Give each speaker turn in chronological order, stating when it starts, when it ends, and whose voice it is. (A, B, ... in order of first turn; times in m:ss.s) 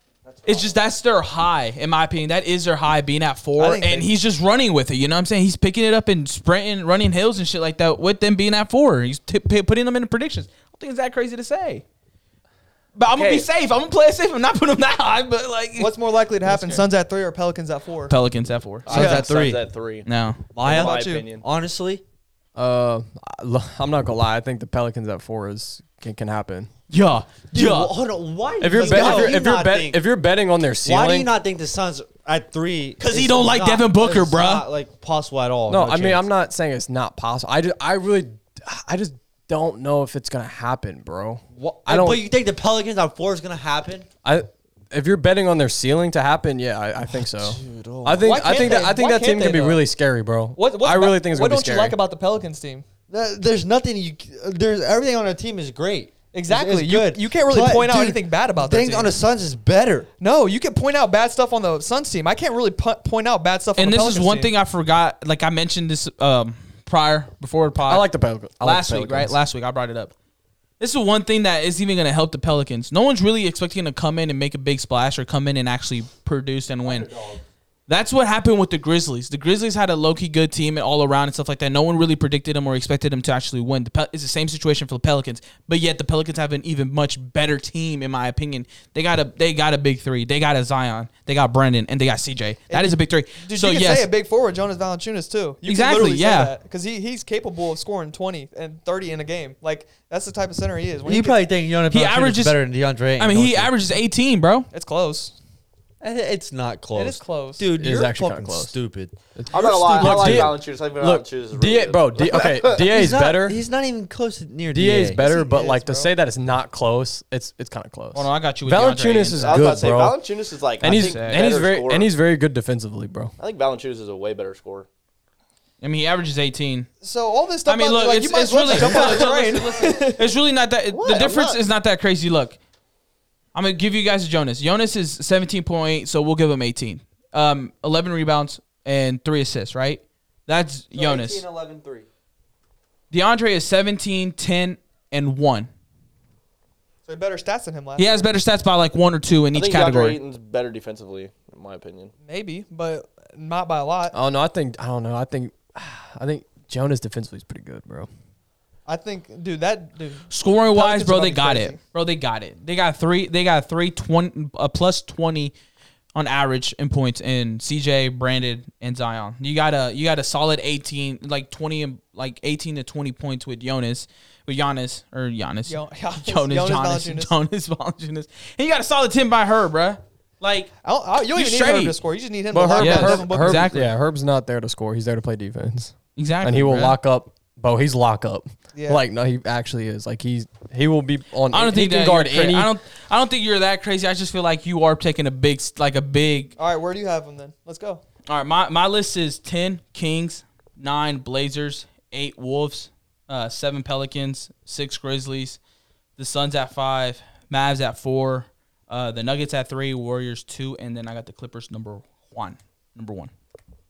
0:00.2-0:00.7 A
0:00.4-0:11.8 B
0:03.6-0:04.1 C
0:12.9-0:16.8 B
0:13.1-0:13.5 D
0:15.8-0:18.1 C
0:18.1-0:18.9 B
0:18.8-0:20.1 D
0:18.9-0:19.6 A
0:18.9-0:19.3 C
0:20.0-0:20.4 B
0:20.5-0:22.0 A
0:20.6-0:21.4 D
0:20.6-0:21.2 C
0:22.5-0:26.7 E
0:26.9-0:27.9 B
0:27.5-0:30.0 A
0:28.6-0:31.3 E
0:28.8-0:29.4 C
0:30.8-0:36.2 A
0:33.0-0:34.6 B
0:35.7-0:42.2 E
0:41.6-0:44.1 A
0:44.2-0:52.0 E
0:47.4-0:48.8 A
0:48.2-0:49.8 C
0:50.6-0:52.8 C
0:53.1-1:00.1 A
0:56.3-0:59.2 C
1:00.2-1:04.5 C
1:03.8-1:08.1 B
1:07.9-1:09.3 E
1:08.6-1:10.1 B
1:10.8-1:17.1 B
1:17.1-1:17.3 A
1:17.9-1:34.1 B
1:32.7-1:41.4 C
1:35.6-1:36.5 B
1:41.0-1:43.7 A
1:41.9-1:42.6 B
1:43.2-1:44.7 B
1:44.7-1:45.3 C
1:46.0-1:50.5 A
1:46.9-1:47.7 C
1:47.8-1:48.7 E
1:49.4-1:53.6 E
1:49.5-1:52.9 D
1:52.8-1:55.4 A
1:54.7-2:00.2 E
1:55.2-1:56.1 C
1:58.1-1:59.7 B
1:59.4-2:02.1 D
2:00.8-2:03.3 E
2:00.8-2:01.4 B
2:03.4-2:04.9 D
2:05.8-2:06.9 B
2:07.0-2:10.2 C
2:07.6-2:12.6 B
2:10.9-2:11.6 D
2:13.5-2:21.4 B
2:20.9-2:22.0 A
2:23.1-2:25.7 B
2:27.1-2:28.3 C
2:28.0-2:30.2 B
2:29.5-2:32.1 D
2:32.3-2:34.2 C
2:34.1-2:38.1 E
2:38.9-2:41.8 C
2:40.3-2:45.5 B
2:46.1-3:00.7 B
2:55.7-2:57.3 C
3:00.8-3:03.7 C
3:01.3-3:02.0 B
3:02.5-3:12.7 E
3:02.8-3:03.9 B
3:06.2-3:07.0 B
3:08.7-3:09.0 C
3:11.5-3:16.5 B
3:16.6-3:18.0 C
3:18.3-3:25.6 B
3:26.2-3:33.3 B